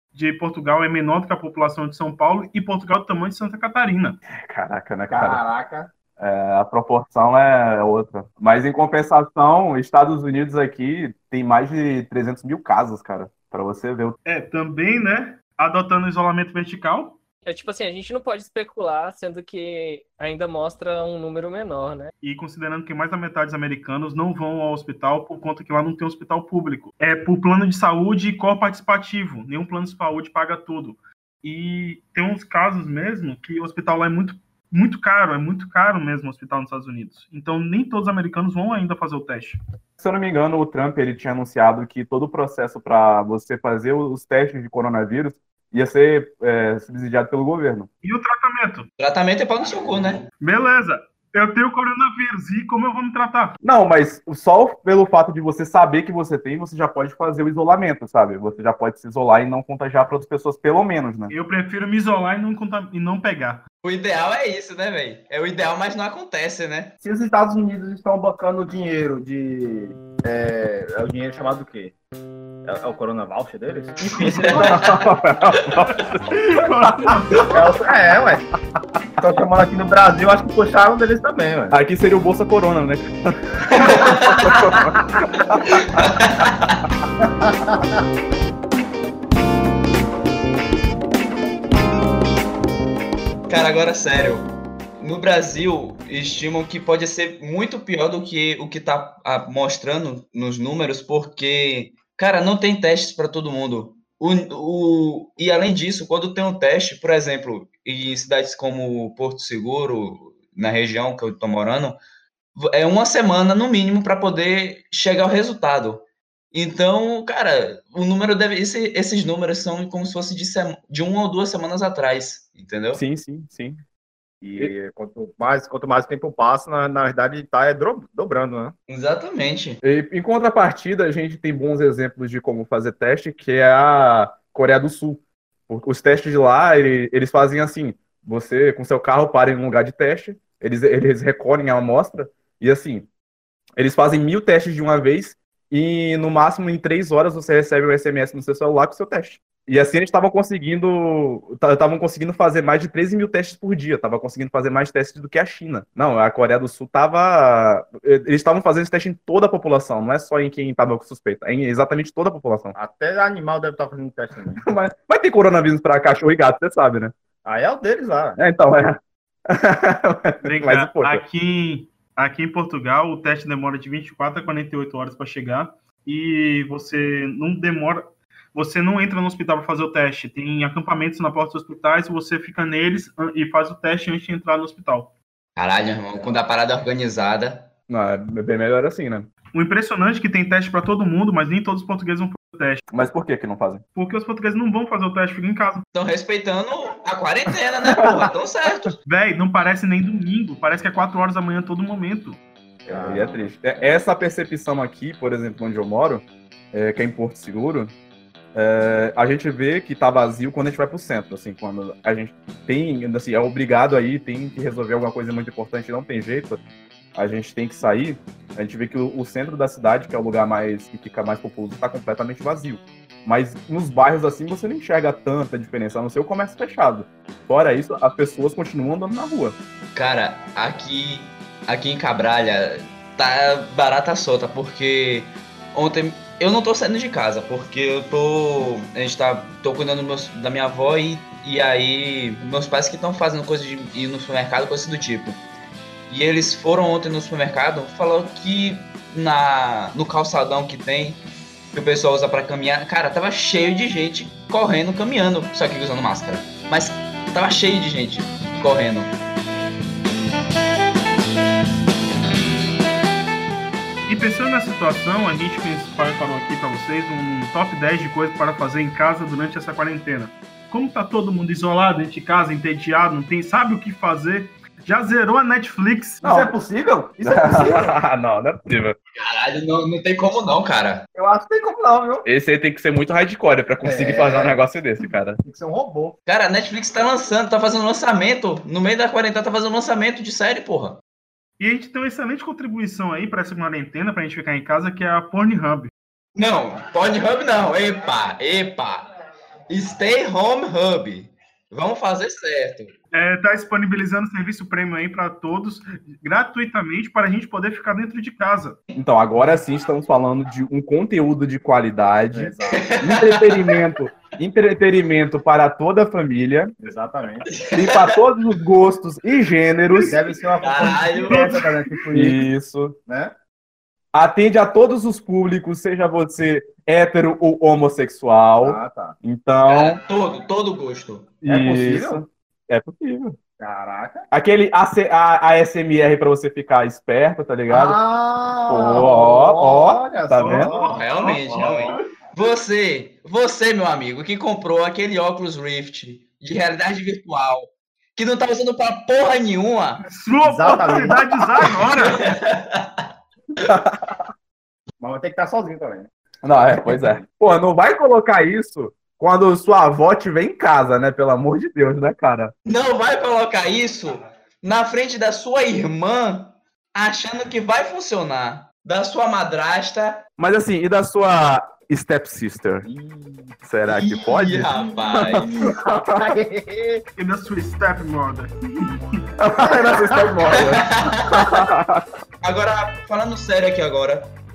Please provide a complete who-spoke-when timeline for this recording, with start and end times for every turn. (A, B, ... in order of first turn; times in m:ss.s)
0:00.1-0:04.2 A
0:04.3-0:05.4 B
0:05.1-0:05.9 C
0:06.2-0:14.2 B
0:14.2-0:17.2 A
0:17.5-0:22.1 D
0:22.2-0:39.6 A
0:40.0-0:47.9 B
0:48.0-0:48.9 A
0:49.0-0:50.3 E
0:50.4-0:53.6 A
0:53.6-1:01.3 B
1:01.3-1:03.6 A
1:03.8-1:07.0 E
1:07.0-1:11.9 C
1:12.7-1:15.0 C
1:14.0-1:15.1 E
1:14.4-1:16.2 B
1:16.3-1:17.7 A
1:16.8-1:17.2 B
1:17.5-1:18.4 C
1:19.2-1:21.8 C
1:21.7-1:26.5 B
1:23.8-1:24.6 E
1:25.7-1:26.8 E
1:27.4-1:27.8 C
1:33.5-1:52.0 E
1:52.6-2:03.0 E
2:02.9-2:03.8 B
2:04.4-2:08.7 C
2:08.9-2:09.8 E
2:09.8-2:23.1 B
2:23.8-2:42.8 B
2:42.8-2:44.6 C
2:44.6-2:47.2 B
2:47.4-2:48.4 C
2:48.4-2:51.2 B
2:50.4-3:05.1 A
3:05.6-3:07.7 E
3:07.9-3:09.3 B
3:09.5-3:12.8 A
3:12.9-3:13.8 B
3:14.0-3:15.8 A
3:15.9-3:19.0 E
3:17.8-3:18.3 B
3:19.1-3:22.4 A
3:22.9-3:23.5 C
3:22.9-3:27.9 B
3:28.6-3:36.6 B
3:37.2-3:49.6 B
3:50.0-4:05.4 E
4:06.1-4:11.2 E
4:11.7-4:19.2 E
4:24.1-4:36.2 A
4:36.2-4:36.6 B
4:36.2-4:37.9 C
4:37.2-4:39.0 B
4:39.2-4:41.1 E
4:41.1-4:42.3 C
4:42.2-4:45.4 B
4:43.8-4:44.6 C
4:45.4-4:46.2 C
4:46.3-4:51.0 E
4:51.6-4:55.9 A
4:56.4-4:59.1 E
4:59.7-5:03.0 E
5:03.1-5:08.8 A
5:09.0-5:16.8 B
5:12.3-5:13.0 C
5:12.8-5:13.8 E
5:16.8-5:17.5 C
5:17.5-5:18.2 E
5:17.7-5:20.2 B
5:20.0-5:22.4 C
5:20.6-5:21.6 E
5:21.3-5:21.7 A
5:22.1-5:23.0 B
5:23.1-5:23.3 C
5:24.1-5:30.0 B
5:28.6-5:29.2 C
5:29.6-5:31.4 E
5:31.4-5:33.4 B
5:31.4-5:32.2 C
5:33.6-5:34.3 C
5:34.3-5:38.0 B
5:37.7-5:42.0 C
5:38.7-5:40.8 B
5:40.7-5:50.0 E
5:50.1-5:52.3 A
5:50.4-5:51.7 C
5:52.0-5:53.1 E
5:53.6-5:54.2 B
5:55.0-5:56.1 C
5:56.4-6:02.5 B
5:56.9-5:57.2 C
6:02.6-6:10.3 E
6:10.4-6:12.9 B
6:12.8-6:13.6 C
6:13.6-6:16.4 B
6:13.9-6:15.5 E
6:15.6-6:17.0 C
6:17.2-6:18.9 A
6:19.4-6:22.0 B
6:19.6-6:20.5 C
6:20.5-6:21.6 E
6:22.4-6:24.3 E